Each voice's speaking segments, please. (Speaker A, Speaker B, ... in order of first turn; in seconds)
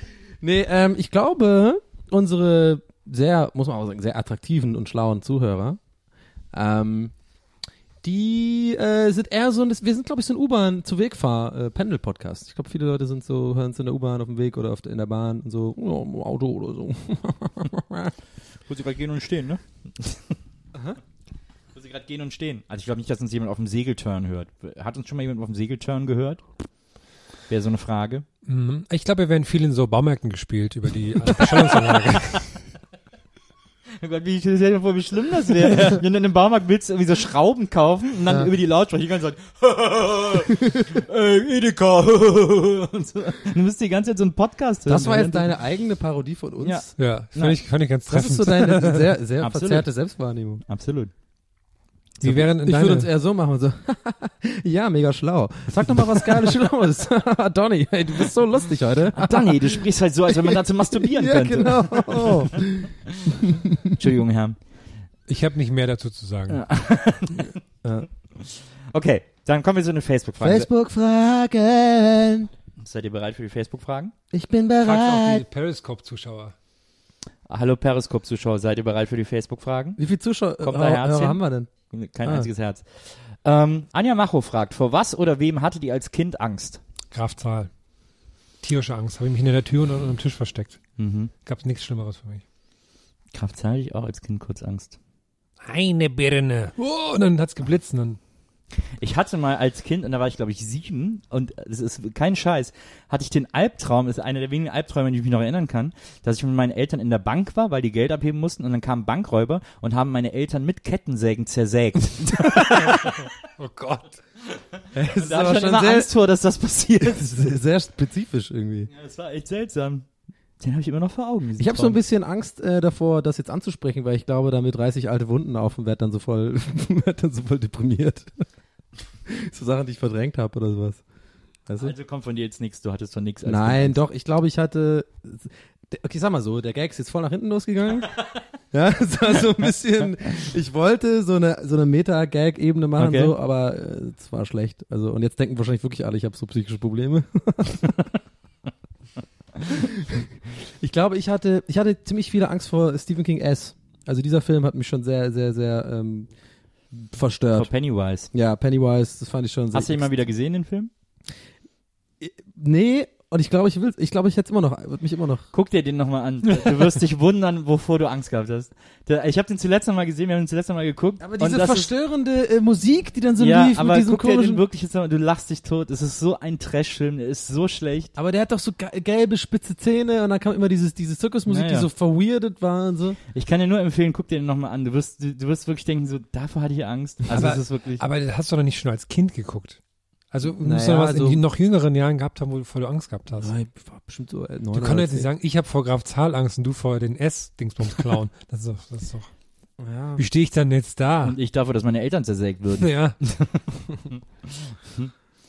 Speaker A: 0.4-5.8, 6.5-7.1, 8.0-18.1, 44.9-46.9, 48.1-50.6, 52.6-59.8, 60.4-63.9, 70.4-72.5, 74.3-75.4, 80.0-81.7, 114.9-116.1, 117.1-118.9, 121.6-128.3, 129.3-131.0, 131.7-131.9, 133.5-138.1, 138.7-147.9, 150.8-156.3, 156.9-157.7, 158.3-160.1, 162.2-165.5, 171.2-174.6, 178.2-183.2, 190.4-191.4, 193.4-195.3, 199.8-200.2
Speaker B: 18.7-20.3, 21.8-26.4, 27.5-28.2, 31.6-32.4, 34.0-45.5, 46.6-47.6, 49.4-49.9, 50.7-51.1, 59.1-62.6, 63.9-64.6, 66.5-67.6, 68.4-70.7, 72.8-74.1, 77.5-80.0, 80.6-81.4, 81.9-86.8, 91.0-91.3, 93.3-95.0, 99.0-113.3, 115.1-117.5, 118.9-120.1, 120.6-122.0, 131.8-134.0, 143.0-143.3, 157.6-158.3, 159.7-160.9, 165.5-171.9, 173.4-178.1, 181.5-181.9, 183.3-188.0, 201.2-205.1
Speaker C: 28.4-32.5, 47.0-49.1, 52.2-53.1, 65.3-66.6, 74.8-76.5, 87.1-87.7, 88.6-90.8, 91.4-92.4, 95.6-98.2, 112.5-114.2, 187.3-189.8, 190.3-193.5, 194.7-199.3, 200.2-201.4, 202.8-203.2